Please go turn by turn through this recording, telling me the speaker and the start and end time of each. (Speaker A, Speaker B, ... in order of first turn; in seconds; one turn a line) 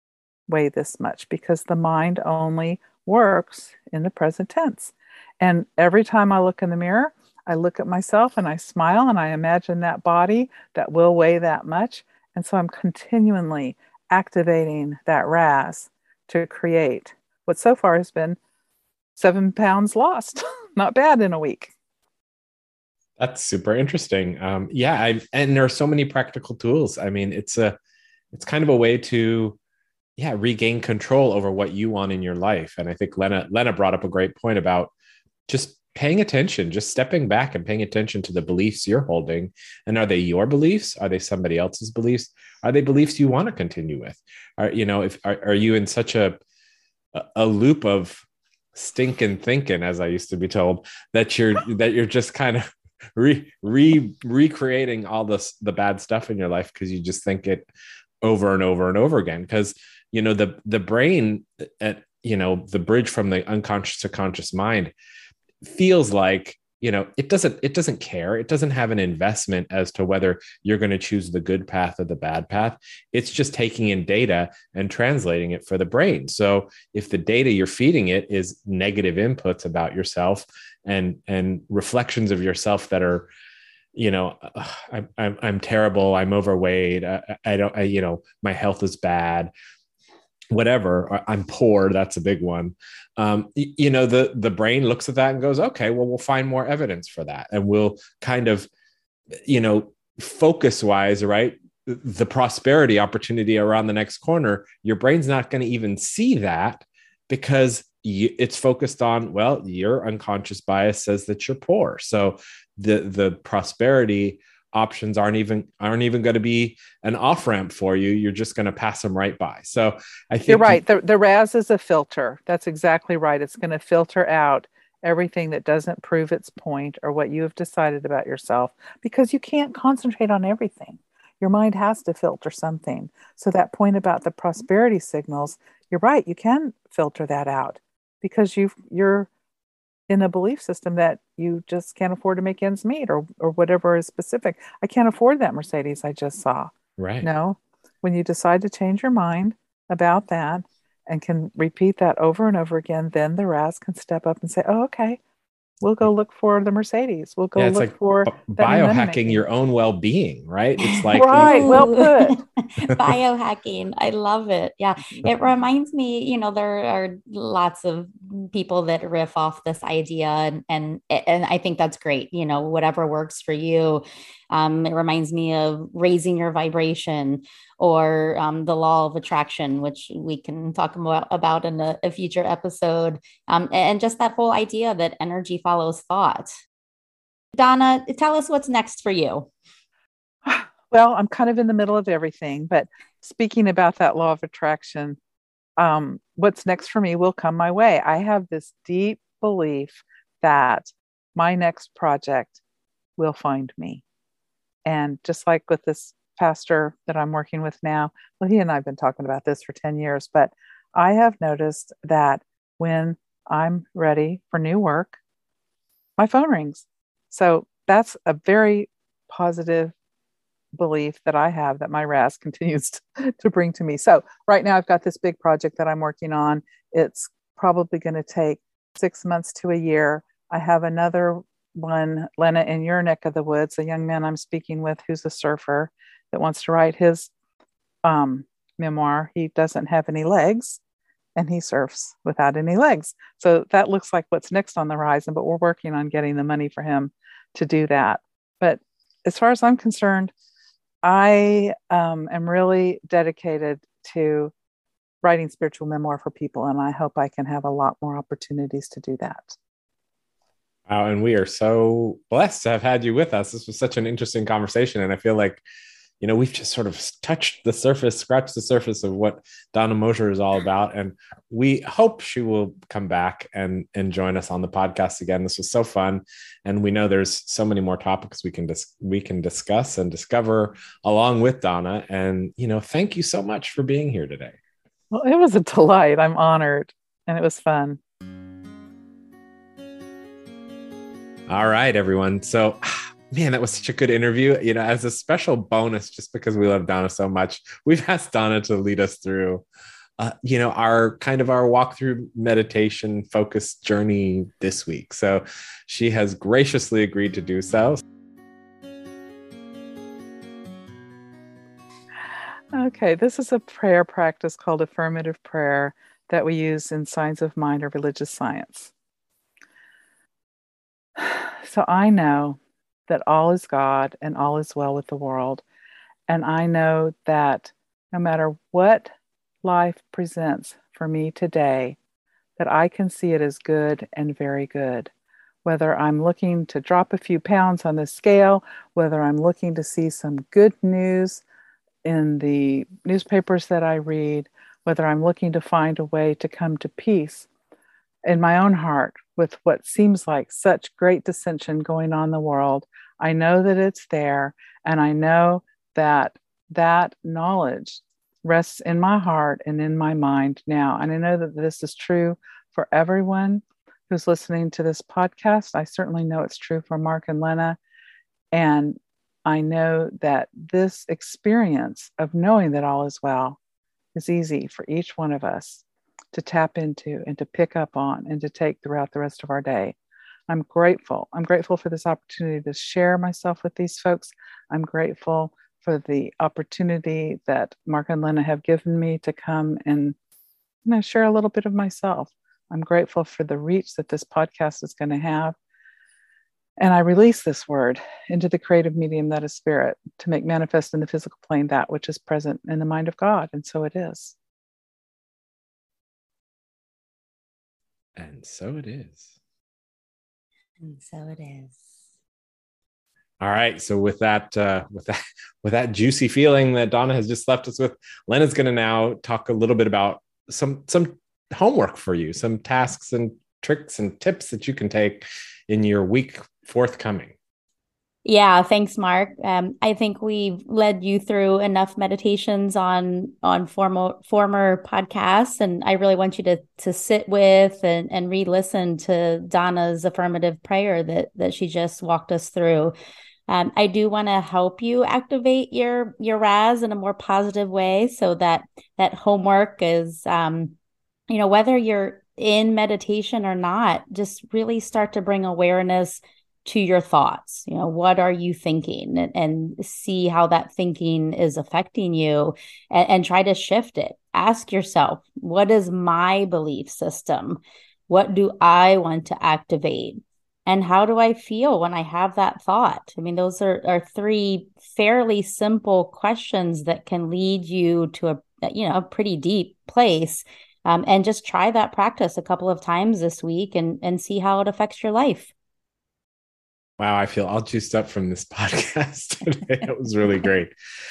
Speaker A: 0.5-18.4
Speaker A: 19.2-21.7
Speaker B: 23.2-27.8
Speaker B: 28.3-29.6
Speaker B: 30.2-34.9
Speaker B: 35.5-46.4
Speaker B: 47.1-52.6
Speaker B: 53.1-57.7
Speaker B: 58.2-64.9
Speaker B: 65.6-83.3
Speaker B: 83.9-89.5
Speaker B: 90.5-98.7
Speaker B: 99.5-120.8
Speaker A: 120.5-139.3
Speaker A: 140.1-155.2
Speaker B: 147.0-147.3
Speaker A: 155.8-159.4
Speaker B: 157.6-161.9
Speaker C: 160.8-186.5
Speaker A: 161.1-162.4
Speaker C: 187.6-189.5
Speaker A: 190.4-195.2
Speaker A: 195.8-202.6
Speaker A: 203.2-204.0
Speaker A: 204.9-215.2
Speaker A: 216.2-219.9
Speaker A: 220.8-237.3
Speaker A: 238.0-240.8
Speaker A: 241.4-250.3
Speaker A: 251.0-254.5
Speaker A: 255.2-259.6
Speaker B: 260.9-265.6
Speaker B: 266.2-284.6
Speaker A: 285.1-288.0
Speaker B: 291.5-299.6
Speaker B: 300.2-308.0
Speaker A: 312.7-318.9
Speaker A: 321.2-325.6
Speaker A: 326.3-329.1
Speaker A: 329.6-332.0
Speaker A: 332.6-335.1
Speaker A: 335.6-341.4
Speaker A: 342.0-347.5
Speaker A: 348.2-367.8
Speaker A: 368.5-373.6
Speaker A: 374.1-379.9
Speaker A: 380.5-390.2
Speaker A: 390.9-395.6
Speaker A: 396.8-404.4
Speaker B: 408.2-409.3
Speaker C: 410.8-411.9
Speaker B: 413.4-427.4
Speaker C: 428.2-442.9
Speaker C: 443.5-450.8
Speaker C: 451.3-485.5
Speaker B: 487.0-490.7